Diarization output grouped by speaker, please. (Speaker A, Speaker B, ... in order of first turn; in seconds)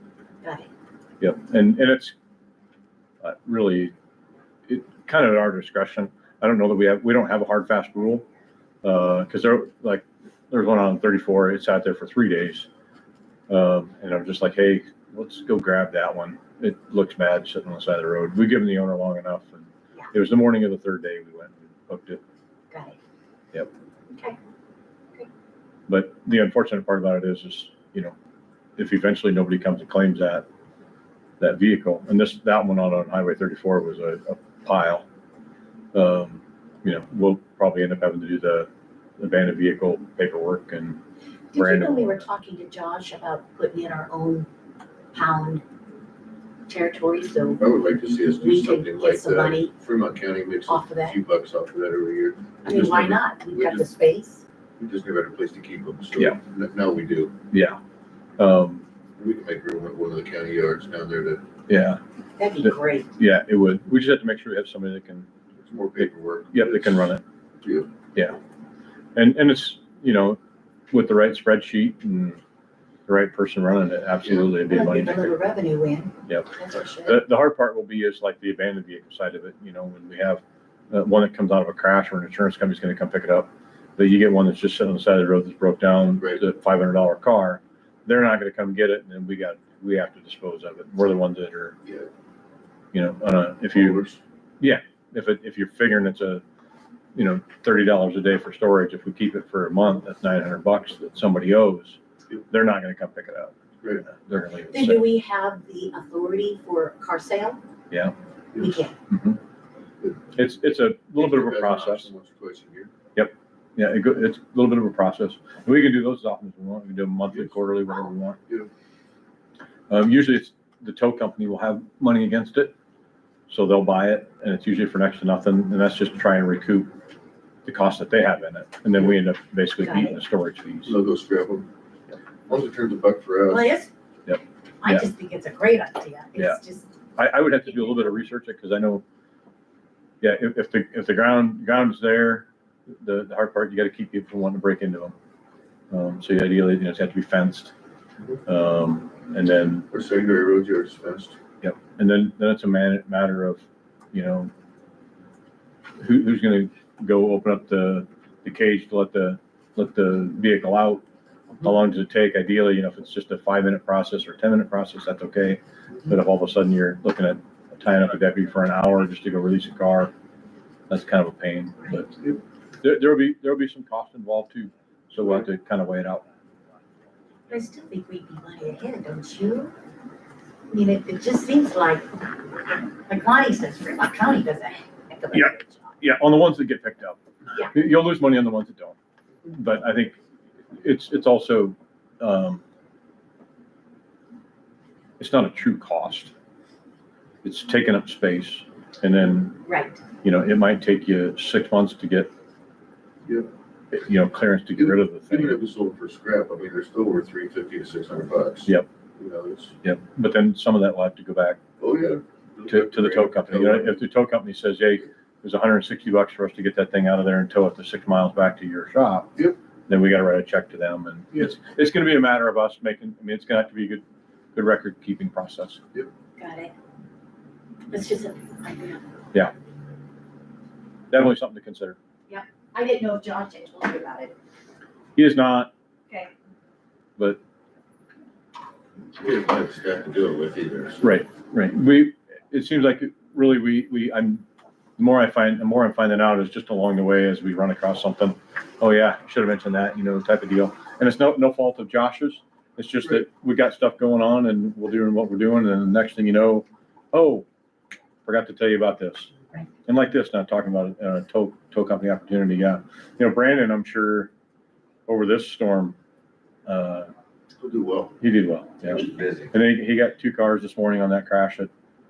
Speaker A: 0.4-0.7, 22.7-23.0, 41.5-44.5, 45.1-45.6, 46.7-49.7, 50.6-51.2, 52.6-54.4, 62.4-63.1, 74.6-77.2, 104.7-107.6, 108.5-109.0, 129.8-130.2, 133.5-133.9, 134.8-138.1, 177.5-179.7, 180.7-182.1, 183.1-185.9, 199.7-200.0, 226.4-226.7, 227.9-229.0, 232.3-234.3
Speaker B: 1.2-2.1, 3.2-3.9, 4.7-8.2, 8.8-12.7, 13.5-22.2, 25.9-28.1, 28.8-30.4, 31.4-35.0, 35.9-41.0, 41.5-42.3, 57.5-57.8, 58.4-58.8, 61.7-62.0, 62.6-65.3, 66.0-67.2, 69.2-70.4, 70.9-72.4, 73.1-75.3, 76.3-76.5, 77.0-91.8, 92.9-94.0, 94.6-96.4, 97.2-105.0, 109.1-109.4, 110.3-112.1, 113.1-118.4, 119.9-122.7, 123.5-126.9, 127.6-131.0, 134.3-135.1, 137.2-139.0, 140.2-145.1, 145.9-147.7, 148.4-149.9, 151.6-154.5, 156.0-161.0, 161.6-170.1, 170.9-172.2, 172.8-176.2, 185.3-190.2, 190.7-192.6, 195.2-196.3, 197.4-199.6, 200.2-202.3, 203.9-205.6, 209.8-211.6, 212.7-224.0, 224.5-225.8, 231.1-232.0, 235.2-235.7, 241.0-244.4, 245.0-257.4, 258.2-259.3, 259.8-264.3, 265.1-265.9, 266.7-267.1, 268.2-271.7
Speaker C: 47.6-53.8, 54.8-57.4, 59.2-61.5, 65.6-67.9, 74.2-74.5, 86.2-86.4, 93.7-94.2, 110.0-110.3, 111.2-112.9, 130.9-131.7, 132.5-133.7, 149.9-151.4, 204.8-209.7, 211.8-214.0, 239.2-241.1, 267.6-268.2, 268.9-269.5